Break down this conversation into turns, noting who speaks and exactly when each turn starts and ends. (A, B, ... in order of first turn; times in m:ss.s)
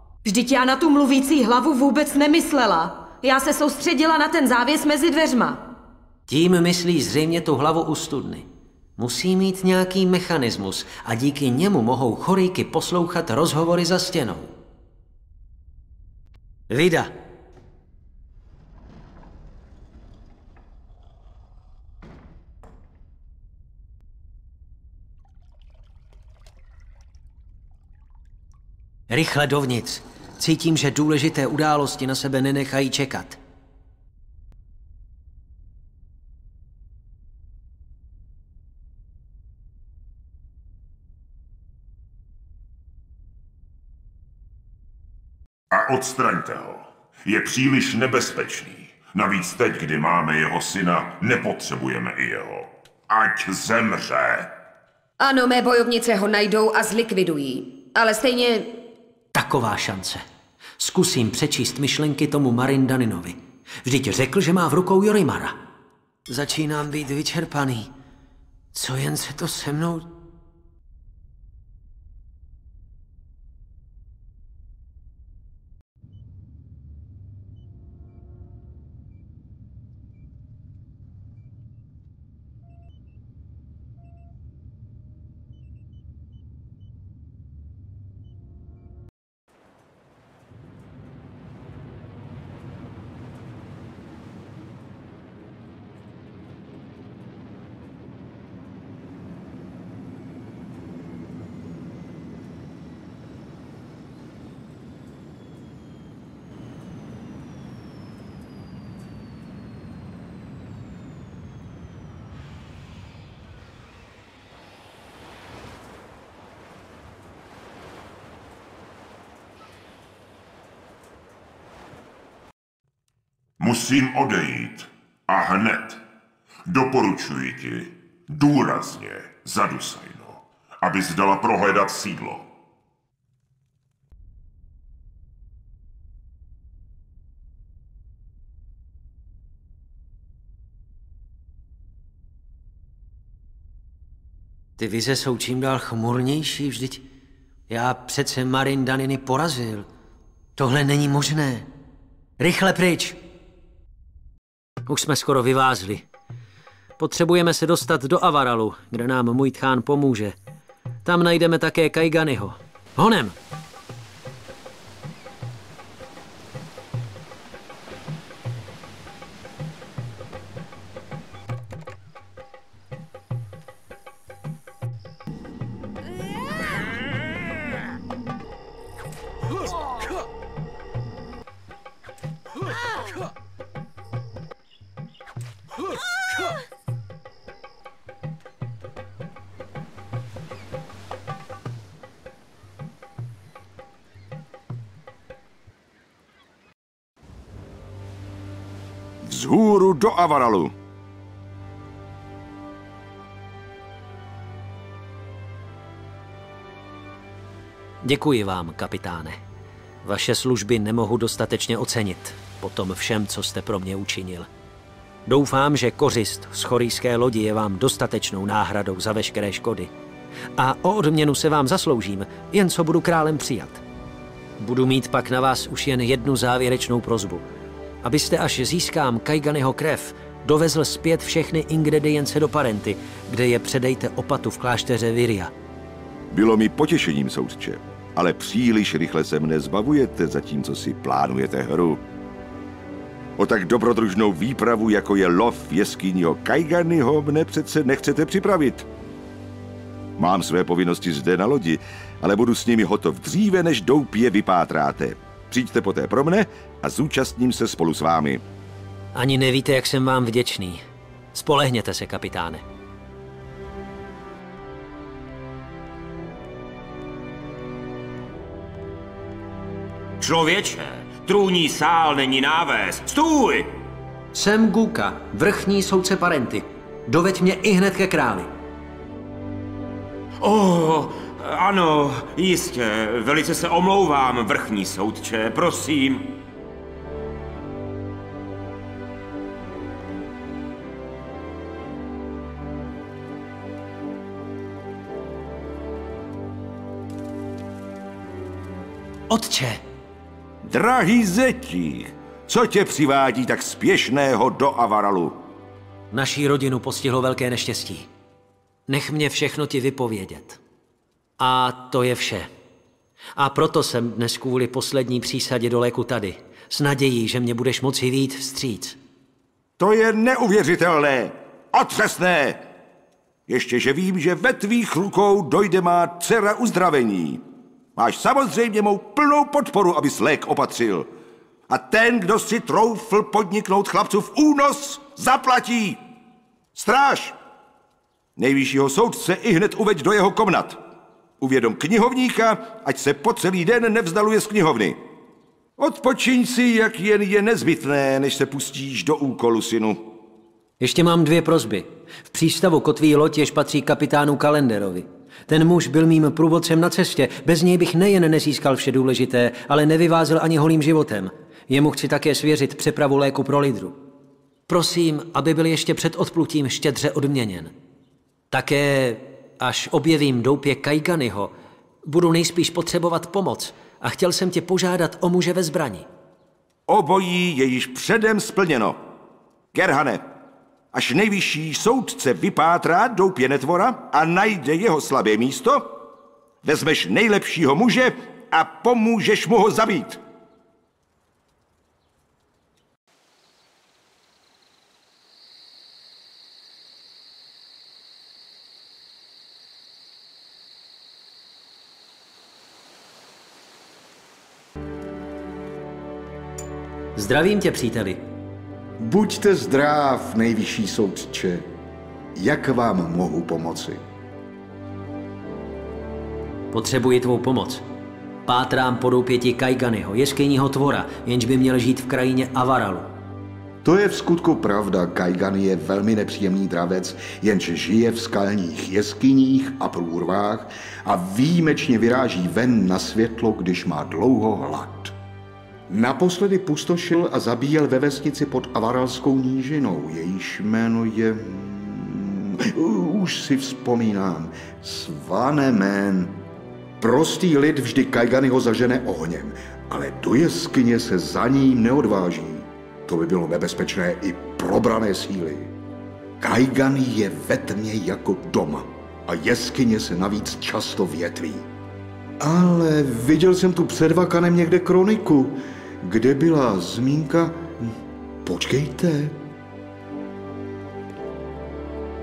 0:00.2-0:05.6 A
0:06.3-0:14.5 B
0:16.7-0:17.1 B
0:29.1-0:33.4 B
0:45.7-0:54.5 C
0:55.2-0:58.7 A
0:59.3-1:00.2 B
1:00.8-1:05.6 B
1:06.3-1:07.9 B
1:08.7-1:10.1 B
2:03.6-2:06.0 C
2:06.7-2:12.5 C
2:24.8-2:27.0 B
2:27.7-2:29.9 B
2:30.6-2:31.7 B
2:32.4-2:33.2 B
2:34.9-2:36.0 B
2:37.0-2:40.3 B
2:41.0-2:43.4 B
3:19.2-3:20.7 D
3:28.0-3:29.4 B
3:30.0-3:34.5 B
3:35.3-3:39.9 B
3:40.6-3:43.8 B
3:44.6-3:47.5 B
3:48.0-3:55.5 B
3:56.3-4:02.0 D
4:03.4-4:08.8 D
4:10.2-4:18.4 D
4:19.1-4:20.8 B
4:21.3-4:22.6 B
4:30.2-4:33.7 E
4:34.3-4:38.5 B
4:40.4-4:46.3 E
4:59.3-4:59.8 B
5:00.6-5:05.4 D
5:06.1-5:08.1 B
5:08.9-5:10.6 B
5:11.4-5:12.5 B
5:13.4-5:19.0 B
5:19.8-5:22.7 D
5:23.5-5:27.4 D
5:28.0-5:31.1 D
5:31.7-5:36.0 D
5:36.7-5:37.4 D
5:38.4-5:40.8 D
5:41.4-5:45.0 D
5:45.8-5:50.1 D
5:50.8-6:04.0 B
6:04.7-6:07.7 B
6:08.5-6:11.5 B
6:12.0-6:16.1 B
6:16.9-6:19.0 D
6:19.7-6:20.3 D
6:20.9-6:26.0 D
6:26.6-6:30.2 D
6:47.1-6:48.2 B
6:49.0-6:51.6 F
6:52.3-6:54.0 F
6:56.7-6:57.8 B
6:58.4-7:03.1 B
7:03.8-7:15.1 F
7:15.9-7:26.4 F
7:27.0-7:35.7 F
7:36.4-7:41.6 F
7:42.4-7:47.9 F
7:48.4-7:49.4 F